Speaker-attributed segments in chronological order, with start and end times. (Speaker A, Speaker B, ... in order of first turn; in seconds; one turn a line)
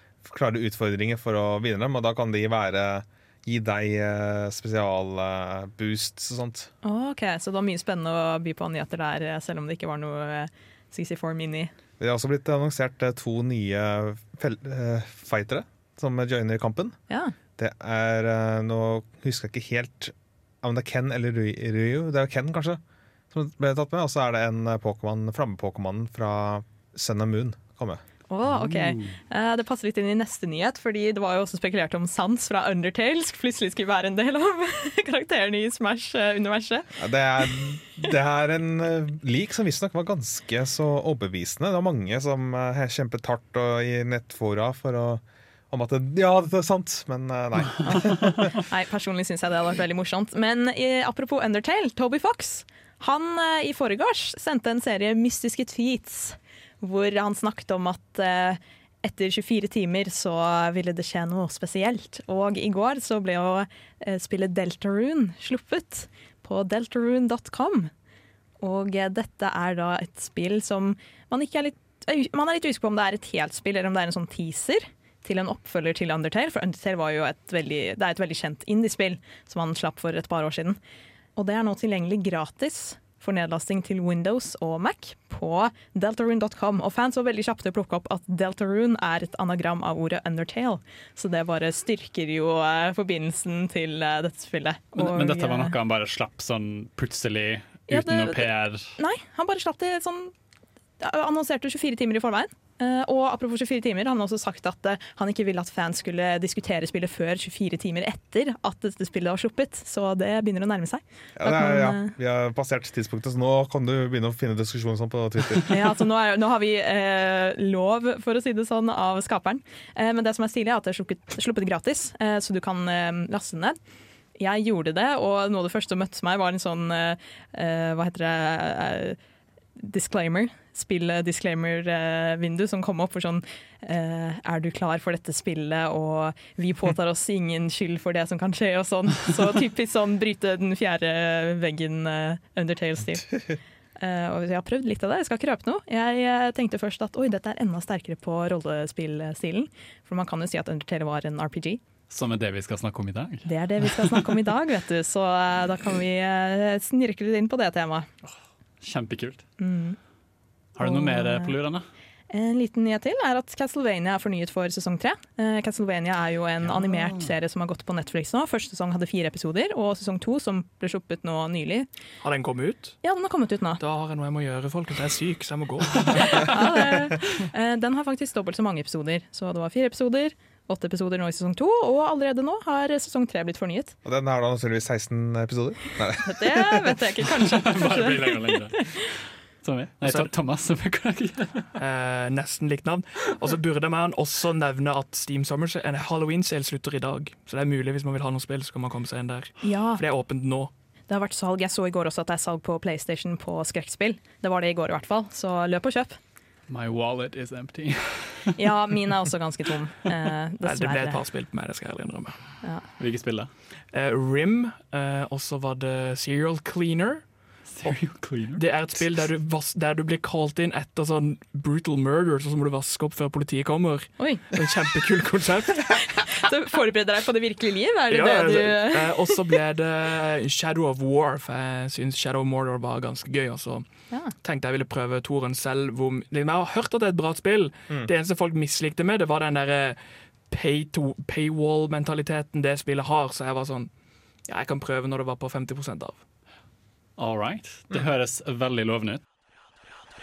Speaker A: 0.2-6.7
Speaker B: 6.8-11.7
Speaker A: 12.0-17.0
Speaker B: 17.1-17.3
Speaker A: 17.6-28.0
Speaker B: 28.3-36.9
Speaker C: 28.5-29.1
Speaker A: 37.0-48.5
Speaker B: 47.8-67.9
Speaker B: 68.6-80.8
Speaker B: 81.4-95.8
Speaker C: 95.0-98.9
Speaker B: 97.9-100.3
Speaker B: 101.0-112.1
Speaker A: 111.4-115.8
Speaker B: 115.7-123.8
Speaker B: 124.4-129.2
Speaker B: 129.8-143.3
Speaker B: 144.0-151.8
Speaker C: 152.1-154.2
Speaker B: 153.4-158.1
Speaker C: 158.8-159.4
Speaker B: 159.6-160.0
Speaker C: 160.8-161.8
Speaker B: 160.8-161.6
Speaker B: 162.3-171.9
Speaker D: 172.2-173.0
Speaker B: 173.0-173.8
Speaker D: 173.8-176.6
Speaker B: 176.3-183.9
Speaker A: 184.1-187.0
Speaker B: 186.2-188.9
Speaker C: 187.5-191.7
Speaker D: 190.0-190.3
Speaker D: 191.8-200.7
Speaker B: 199.6-200.0
Speaker B: 201.1-206.2
Speaker C: 206.7-208.6
Speaker B: 208.6-211.2
Speaker D: 210.6-212.4
Speaker C: 213.0-213.5
Speaker D: 213.9-217.2
Speaker C: 217.7-218.6
Speaker D: 218.6-225.9
Speaker B: 224.2-224.5
Speaker B: 225.9-229.3
Speaker D: 228.1-233.9
Speaker D: 234.4-240.0
Speaker D: 240.5-243.9
Speaker D: 244.5-246.2
Speaker C: 247.2-249.2